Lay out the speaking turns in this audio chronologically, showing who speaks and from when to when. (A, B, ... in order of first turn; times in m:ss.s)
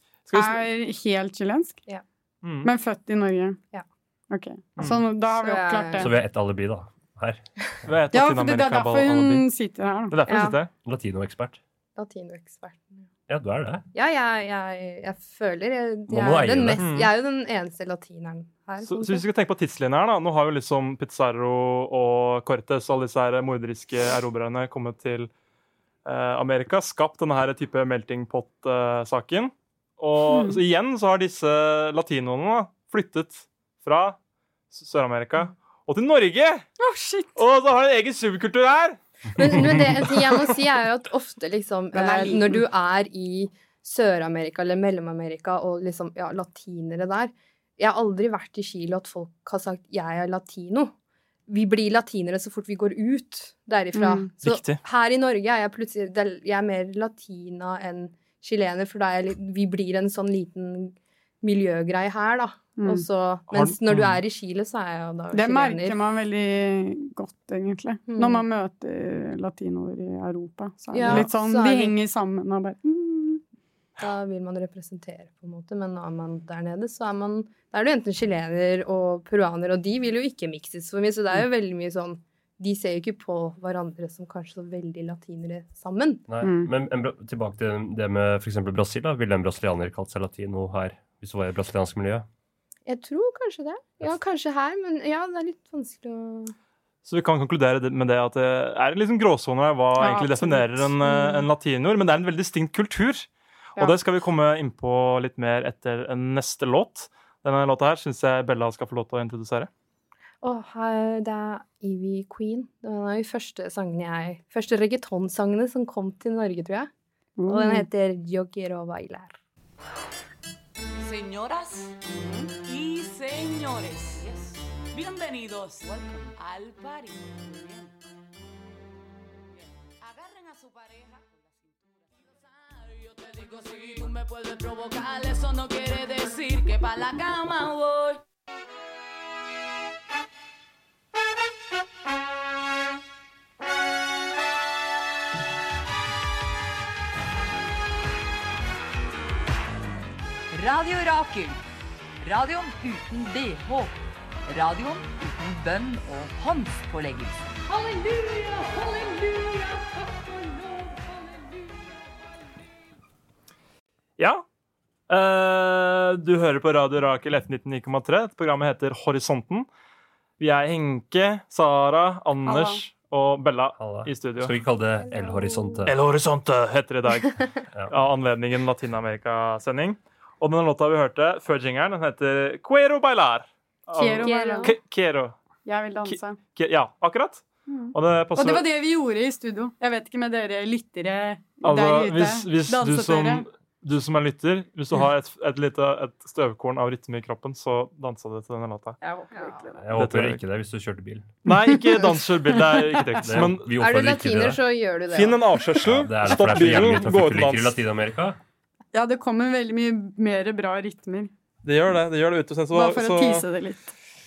0:00.2-0:00.6 A
0:00.3-0:01.8 B
0:02.4-0:02.7 A
0:02.6-0:03.6 B
0:04.3-0:06.1 B
0:04.8-0:05.0 A
0:05.3-0:06.1 C
0:06.0-0:07.4 D
0:07.8-0:09.4 A
0:08.1-0:10.1 B
0:10.1-0:10.7 A
0:10.3-0:10.6 C
0:10.8-0:11.6 D
0:12.0-0:13.0 C
0:13.3-0:13.8 D
0:13.9-0:19.2 C
0:16.1-0:16.9 D
0:16.8-0:17.1 A
0:18.8-0:25.3 A
0:26.0-0:34.2 A
0:30.2-0:30.6 B
0:34.7-0:36.6 A
0:36.8-0:37.4 B
0:37.4-0:39.0 A
0:39.3-0:50.9 C
0:41.9-0:42.6 B
0:51.5-1:06.0 C
0:53.9-0:54.3 B
0:54.4-0:54.8 A
1:02.8-1:03.0 B
1:03.5-1:04.2 A
1:05.3-1:13.4 B
1:08.1-1:08.4 C
1:10.9-1:12.0 C
1:14.0-1:26.2 C
1:26.3-1:32.2 D
1:26.4-1:26.7 B
1:32.9-1:36.5 C
1:37.0-1:49.7 A
1:40.0-1:41.4 B
1:50.4-1:56.9 C
1:57.4-1:57.8 B
1:57.5-1:59.3 C
2:01.0-2:02.0 E
2:02.2-2:02.5 B
2:02.6-2:07.9 E
2:09.5-2:18.2 E
2:30.5-2:31.6 F
2:32.2-2:37.5 F
2:37.6-2:41.9 E
2:44.2-2:44.4 A
2:45.1-2:49.7 A
2:50.4-2:54.5 A
2:52.4-2:52.8 B
2:53.8-2:56.0 D
2:55.0-2:55.9 C
2:55.8-3:05.4 A
3:04.0-3:04.7 B
3:04.2-3:04.7 C
3:05.6-3:06.4 B
3:06.0-3:08.6 A
3:07.7-3:13.4 B
3:11.6-3:19.0 A
3:19.0-3:19.8 B
3:19.3-3:19.6 C
3:19.8-3:21.3 D
3:19.9-3:20.4 A
3:21.4-3:23.2 B
3:21.4-3:23.7 A
3:23.2-3:24.6 D
3:23.8-3:25.6 C
3:25.1-3:27.8 A
3:25.8-3:28.4 D
3:28.9-3:31.3 B
3:31.6-3:33.4 A
3:32.7-3:33.9 B